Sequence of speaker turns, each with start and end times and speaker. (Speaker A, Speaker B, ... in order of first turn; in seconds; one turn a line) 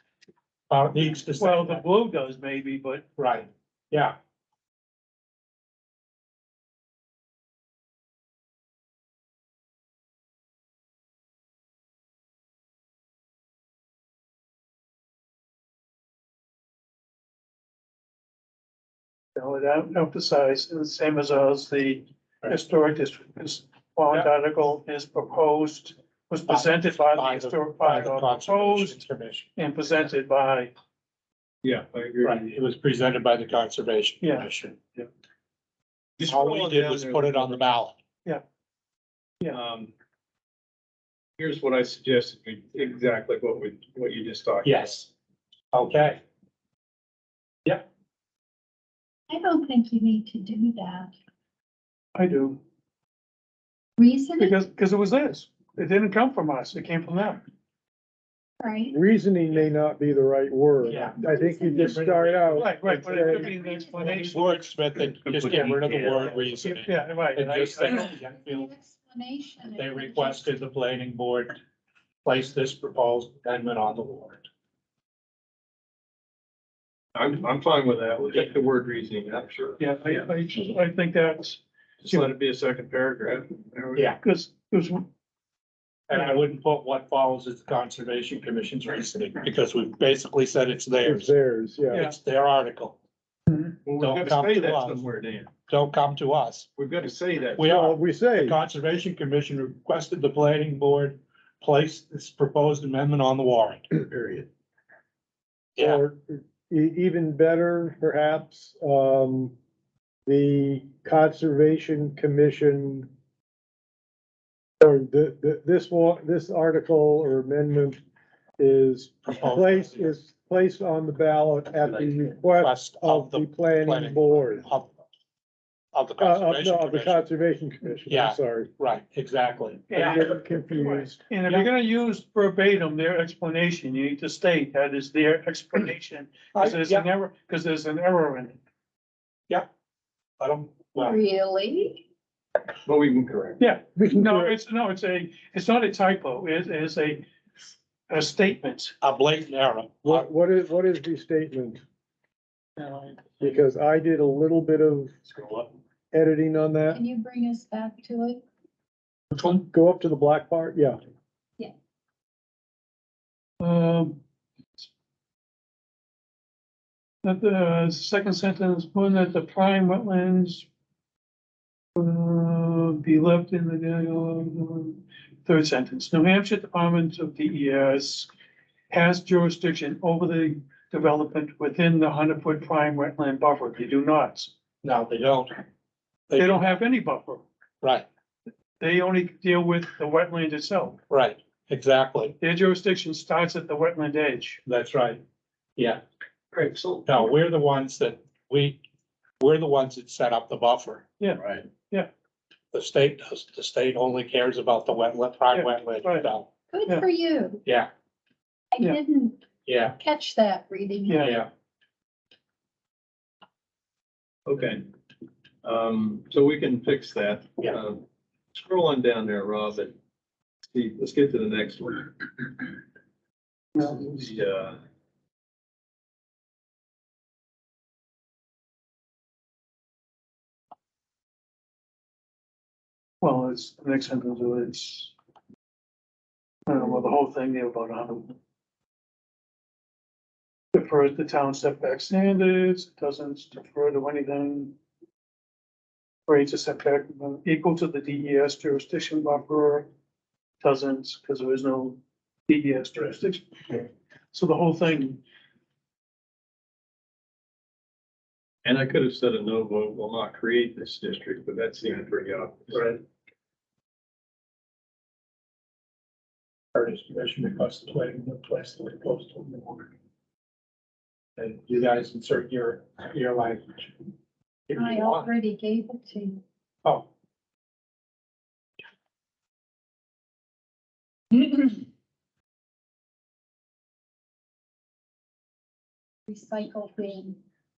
Speaker A: 0.7-1.8
Speaker B: 1.4-3.1
Speaker A: 3.2-4.2
Speaker B: 19.4-29.0
Speaker A: 26.5-29.5
Speaker B: 29.6-30.7
Speaker C: 31.6-32.5
Speaker A: 32.2-34.8
Speaker B: 34.2-35.1
Speaker C: 36.2-37.7
Speaker A: 36.3-38.0
Speaker C: 39.5-39.9
Speaker C: 41.4-45.1
Speaker A: 44.6-45.1
Speaker A: 45.7-46.2
Speaker D: 49.3-51.1
Speaker B: 52.2-52.6
Speaker D: 54.0-54.6
Speaker B: 54.4-57.4
Speaker D: 58.6-59.0
Speaker E: 58.9-63.5
Speaker A: 60.8-62.7
Speaker D: 61.2-62.0
Speaker B: 62.5-64.8
Speaker D: 63.2-64.2
Speaker A: 64.2-68.7
Speaker C: 65.1-66.5
Speaker B: 66.6-68.1
Speaker D: 67.9-70.5
Speaker A: 69.8-71.6
Speaker A: 72.2-74.5
Speaker C: 77.2-79.8
Speaker B: 79.8-82.3
Speaker C: 82.0-84.1
Speaker B: 84.2-85.1
Speaker A: 86.1-91.3
Speaker E: 91.0-92.1
Speaker A: 91.9-93.0
Speaker C: 93.8-95.5
Speaker A: 94.0-95.0
Speaker A: 95.7-96.7
Speaker C: 96.8-97.8
Speaker A: 97.6-103.9
Speaker E: 97.6-98.6
Speaker A: 105.8-106.0
Speaker E: 105.8-109.5
Speaker E: 110.3-113.1
Speaker E: 114.8-118.0
Speaker E: 118.6-124.7
Speaker A: 119.2-120.1
Speaker A: 122.5-125.0
Speaker A: 125.9-127.2
Speaker E: 126.2-128.7
Speaker A: 128.1-130.3
Speaker B: 129.9-138.6
Speaker E: 129.9-131.2
Speaker A: 136.5-137.1
Speaker A: 140.4-141.2
Speaker D: 141.0-142.0
Speaker C: 142.8-143.6
Speaker B: 143.6-147.2
Speaker E: 143.9-144.6
Speaker B: 148.1-148.9
Speaker A: 149.0-150.3
Speaker E: 150.0-151.8
Speaker B: 152.8-153.6
Speaker E: 153.4-155.1
Speaker C: 155.3-155.7
Speaker E: 156.1-157.0
Speaker D: 156.9-158.4
Speaker E: 159.4-161.0
Speaker B: 163.6-164.2
Speaker B: 167.2-170.7
Speaker B: 172.0-178.3
Speaker B: 178.9-184.5
Speaker A: 184.8-185.6
Speaker A: 186.3-186.8
Speaker B: 186.3-187.4
Speaker A: 187.8-188.1
Speaker B: 188.8-191.0
Speaker A: 191.1-192.4
Speaker B: 192.4-194.6
Speaker A: 194.7-195.2
Speaker A: 195.8-196.0
Speaker C: 196.5-197.1
Speaker A: 197.1-198.8
Speaker A: 199.4-201.1
Speaker B: 201.2-202.1
Speaker C: 201.4-201.7
Speaker A: 202.7-206.5
Speaker B: 205.5-206.3
Speaker D: 206.7-207.6
Speaker A: 207.7-207.9
Speaker D: 208.7-211.3
Speaker A: 209.7-210.0
Speaker B: 211.1-211.4
Speaker A: 211.2-211.5
Speaker C: 214.5-214.9
Speaker C: 215.6-219.9
Speaker C: 220.7-222.7
Speaker B: 223.8-224.1
Speaker C: 223.8-224.8
Speaker B: 233.2-235.1
Speaker B: 236.7-238.4
Speaker B: 240.7-244.7
Speaker B: 246.3-249.9
Speaker B: 250.6-255.2
Speaker C: 258.6-263.0
Speaker A: 266.7-269.9
Speaker A: 271.4-274.1
Speaker A: 274.7-275.3
Speaker D: 274.8-276.4
Speaker D: 281.3-281.7
Speaker D: 286.3-287.4